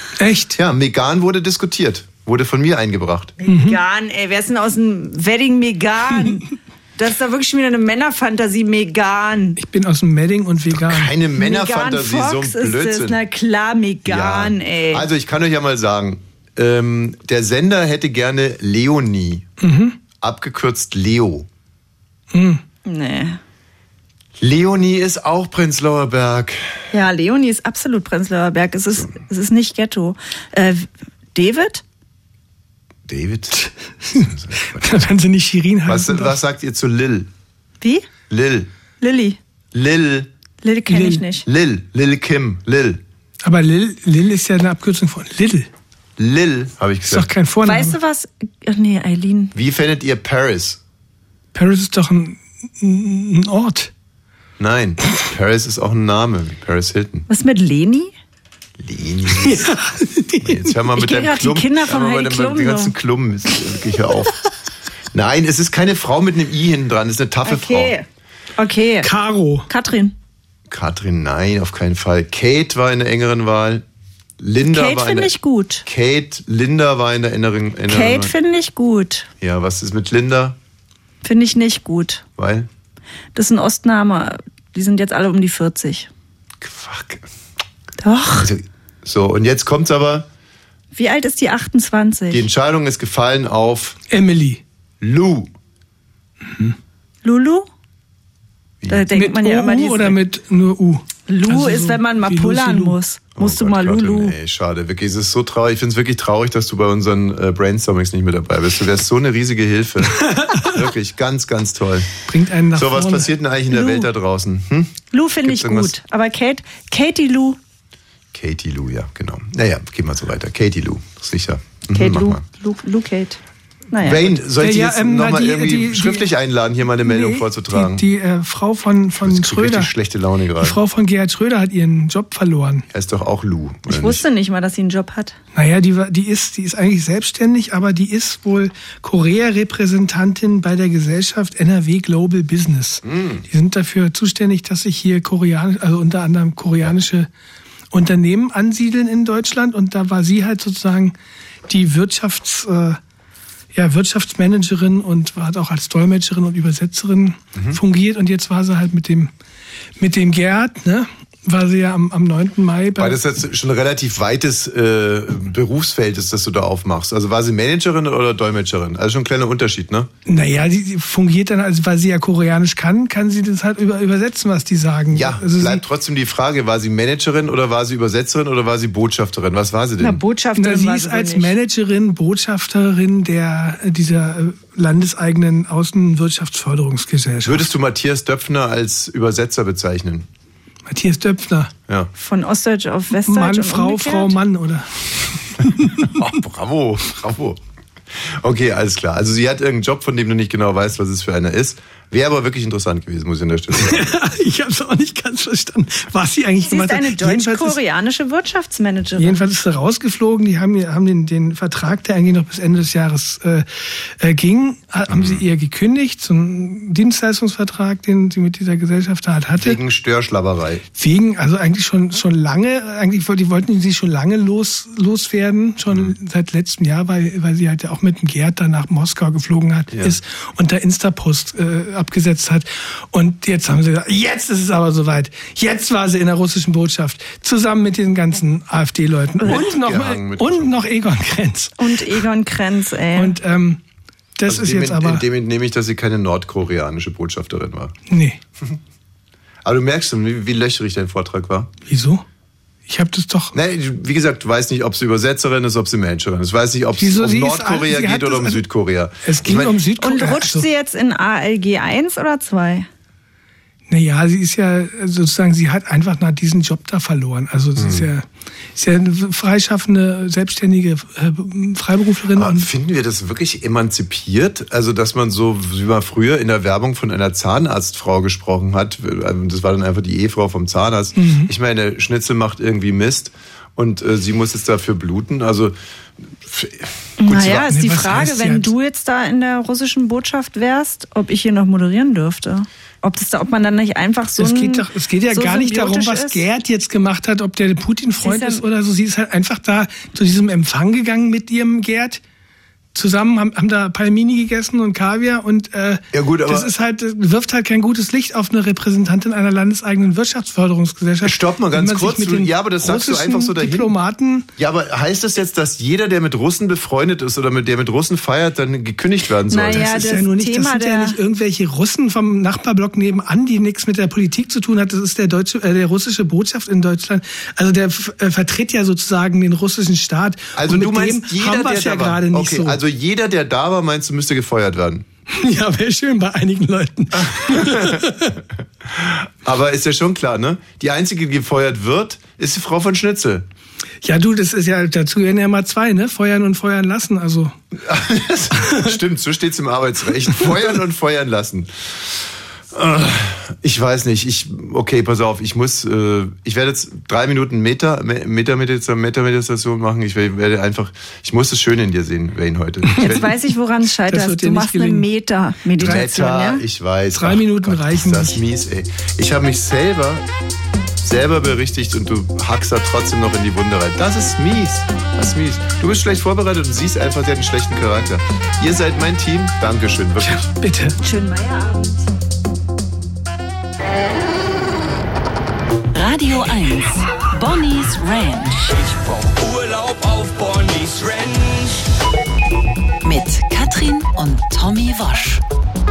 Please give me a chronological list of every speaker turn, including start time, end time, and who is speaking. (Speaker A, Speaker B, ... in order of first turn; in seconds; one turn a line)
Speaker A: 0.2-0.6
Speaker B: 0.6-3.4
Speaker C: 3.4-9.6
Speaker A: 3.5-3.8
Speaker A: 9.6-11.1
Speaker B: 10.7-13.2
Speaker C: 11.4-15.1
Speaker B: 14.1-19.5
Speaker A: 19.6-20.0
Speaker B: 20.1-21.5
Speaker A: 22.3-22.6
Speaker C: 22.9-23.4
Speaker B: 24.4-26.7
Speaker C: 26.9-31.8
Speaker B: 33.1-35.1
Speaker A: 34.2-36.4
Speaker B: 35.9-37.3
Speaker C: 37.8-38.1
Speaker B: 38.3-38.7
Speaker C: 39.0-39.4
Speaker B: 39.7-40.3
Speaker C: 40.6-41.5
Speaker A: 40.9-41.3
Speaker B: 41.4-43.0
Speaker A: 43.4-45.7
Speaker B: 46.2-47.3
Speaker A: 47.1-48.0
Speaker C: 47.6-49.5
Speaker B: 49.5-50.8
Speaker A: 51.5-53.9
Speaker B: 54.6-57.3
Speaker C: 57.3-58.1
Speaker B: 58.8-59.7
Speaker A: 59.4-60.7
Speaker B: 60.4-64.3
Speaker C: 61.0-62.9
Speaker B: 65.1-68.0
Speaker C: 67.5-68.0
Speaker C: 68.6-69.1
Speaker A: 69.0-69.7
Speaker C: 69.7-70.2
Speaker B: 70.7-73.8
Speaker B: 74.4-78.3
Speaker C: 74.7-75.8
Speaker C: 77.9-79.3
Speaker B: 79.4-80.6
Speaker C: 81.2-82.2
Speaker B: 82.4-82.7
Speaker C: 83.3-86.1
Speaker B: 86.6-87.3
Speaker C: 88.0-88.5
Speaker B: 88.4-90.3
Speaker C: 90.9-92.5
Speaker B: 92.3-94.0
Speaker A: 94.1-94.6
Speaker B: 95.0-95.5
Speaker A: 96.5-96.8
Speaker C: 97.2-97.7
Speaker B: 98.8-99.1
Speaker C: 98.9-100.2
Speaker A: 99.1-103.0
Speaker C: 101.3-104.3
Speaker B: 103.4-112.1
Speaker A: 110.3-110.7
Speaker A: 112.3-113.3
Speaker B: 112.7-115.9
Speaker C: 113.7-114.1
Speaker C: 115.1-117.6
Speaker B: 118.3-122.4
Speaker C: 121.9-123.4
Speaker C: 123.9-124.3
Speaker B: 124.0-128.1
Speaker A: 124.6-126.3
Speaker A: 127.0-129.9
Speaker B: 129.2-130.8
Speaker A: 130.6-132.9
Speaker B: 132.9-134.2
Speaker C: 133.9-135.4
Speaker A: 135.6-147.3
Speaker B: 143.0-143.4
Speaker A: 147.9-151.2
Speaker A: 151.7-153.0
Speaker A: 153.7-159.3
Speaker B: 157.6-157.8
Speaker A: 160.0-163.2
Speaker B: 163.0-170.1
Speaker A: 170.3-175.8
Speaker B: 175.1-180.2
Speaker C: 180.0-181.6
Speaker A: 180.6-187.7
Speaker B: 187.4-190.3
Speaker A: 190.9-191.7
Speaker C: 192.2-194.4
Speaker A: 193.2-196.1
Speaker B: 196.0-197.6
Speaker B: 198.2-204.1
Speaker A: 203.8-207.8
Speaker C: 206.6-209.4
Speaker A: 209.2-219.8
Speaker B: 215.1-215.4
Speaker B: 219.6-220.8
Speaker A: 221.0-241.9
Speaker B: 225.9-226.2
Speaker B: 229.9-230.2
Speaker B: 239.4-240.8
Speaker C: 241.8-243.3
Speaker A: 243.2-243.8
Speaker A: 244.4-245.2
Speaker B: 244.5-247.9
Speaker A: 248.1-248.4
Speaker B: 249.6-251.7
Speaker A: 251.9-252.2
Speaker A: 252.9-253.5
Speaker B: 253.5-259.8
Speaker A: 257.0-258.6
Speaker A: 259.2-260.7
Speaker C: 260.0-262.9
Speaker A: 263.9-272.7
Speaker B: 267.8-268.1
Speaker B: 272.3-285.8
Speaker A: 281.2-281.5
Speaker B: 286.3-287.7
Speaker C: 287.2-296.4
Speaker A: 287.3-288.7
Speaker A: 294.4-302.2
Speaker C: 298.2-298.6
Speaker A: 302.9-314.5
Speaker B: 306.1-306.7
Speaker B: 311.2-313.9
Speaker B: 314.6-320.1
Speaker C: 319.5-321.2
Speaker A: 319.7-332.8
Speaker B: 330.6-335.1
Speaker A: 335.3-338.4
Speaker B: 337.1-338.3
Speaker B: 338.8-343.5
Speaker A: 344.0-347.6
Speaker B: 347.8-352.1
Speaker B: 352.7-363.3
Speaker A: 362.9-363.2
Speaker C: 363.0-366.6
Speaker A: 364.1-365.1
Speaker B: 365.8-370.2
Speaker A: 365.8-366.2
Speaker A: 367.1-368.4
Speaker B: 371.0-380.5
Speaker A: 380.2-381.0
Speaker C: 381.0-382.1
Speaker D: 385.9-388.7
Speaker E: 388.7-391.9
Speaker D: 393.0-395.4